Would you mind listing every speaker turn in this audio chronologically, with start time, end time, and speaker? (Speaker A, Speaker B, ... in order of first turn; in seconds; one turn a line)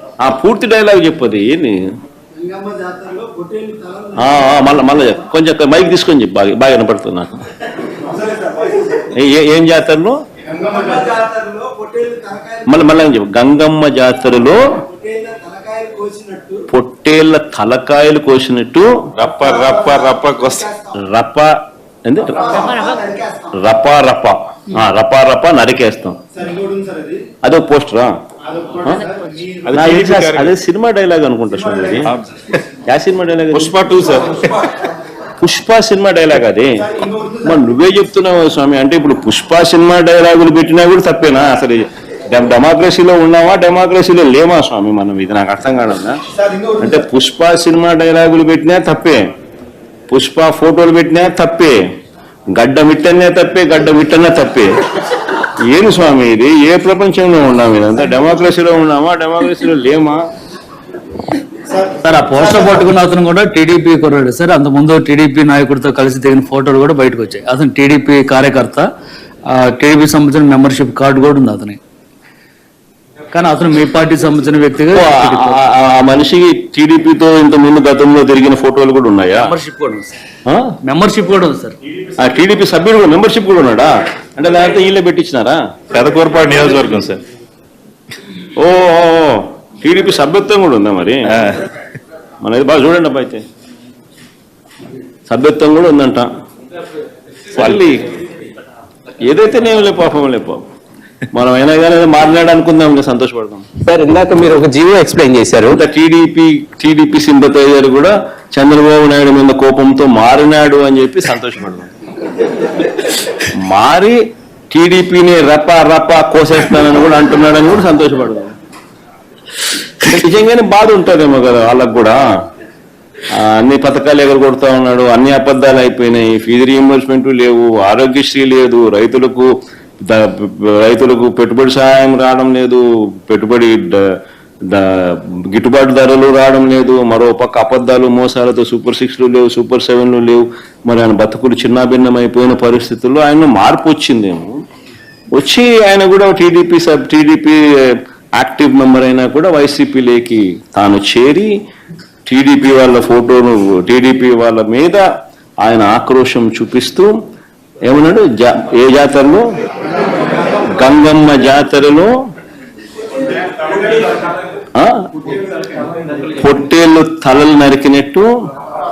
Speaker A: 0.2-1.8
Speaker B: 2.3-5.1
Speaker A: 4.2-7.4
Speaker B: 8.0-9.0
Speaker A: 9.1-10.2
Speaker B: 10.5-12.8
Speaker A: 12.7-14.6
Speaker B: 14.8-16.6
Speaker A: 16.7-19.0
Speaker C: 19.2-20.7
Speaker B: 19.3-20.9
Speaker A: 21.0-21.5
Speaker A: 22.0-22.8
Speaker B: 22.3-23.5
Speaker A: 23.5-26.2
Speaker B: 26.3-27.2
Speaker A: 27.4-28.1
Speaker B: 28.5-29.6
Speaker C: 29.6-30.5
Speaker A: 29.7-32.1
Speaker B: 31.5-32.0
Speaker C: 32.0-32.6
Speaker A: 32.9-33.8
Speaker C: 33.5-34.7
Speaker A: 35.4-36.8
Speaker B: 36.8-37.6
Speaker A: 37.4-46.2
Speaker B: 46.3-47.0
Speaker A: 46.8-49.2
Speaker A: 50.1-51.8
Speaker A: 52.5-54.8
Speaker A: 55.4-60.2
Speaker B: 61.7-62.8
Speaker D: 62.0-68.9
Speaker D: 69.5-71.8
Speaker D: 73.3-75.6
Speaker A: 74.9-79.5
Speaker D: 79.3-80.2
Speaker A: 80.5-80.7
Speaker D: 80.8-81.7
Speaker A: 82.2-85.6
Speaker C: 85.9-87.2
Speaker A: 88.6-91.3
Speaker A: 92.4-93.4
Speaker A: 95.3-96.3
Speaker A: 97.5-98.1
Speaker A: 99.2-100.6
Speaker A: 101.3-103.7
Speaker E: 103.8-105.8
Speaker A: 105.7-111.9
Speaker A: 113.5-114.2
Speaker A: 114.7-118.5
Speaker A: 120.0-122.2
Speaker A: 123.3-129.5
Speaker A: 130.0-134.1
Speaker A: 134.7-144.5
Speaker A: 145.3-151.5
Speaker A: 152.3-155.0
Speaker A: 155.6-157.1
Speaker A: 157.9-159.5
Speaker A: 160.7-162.1
Speaker A: 164.8-165.1
Speaker A: 166.3-168.3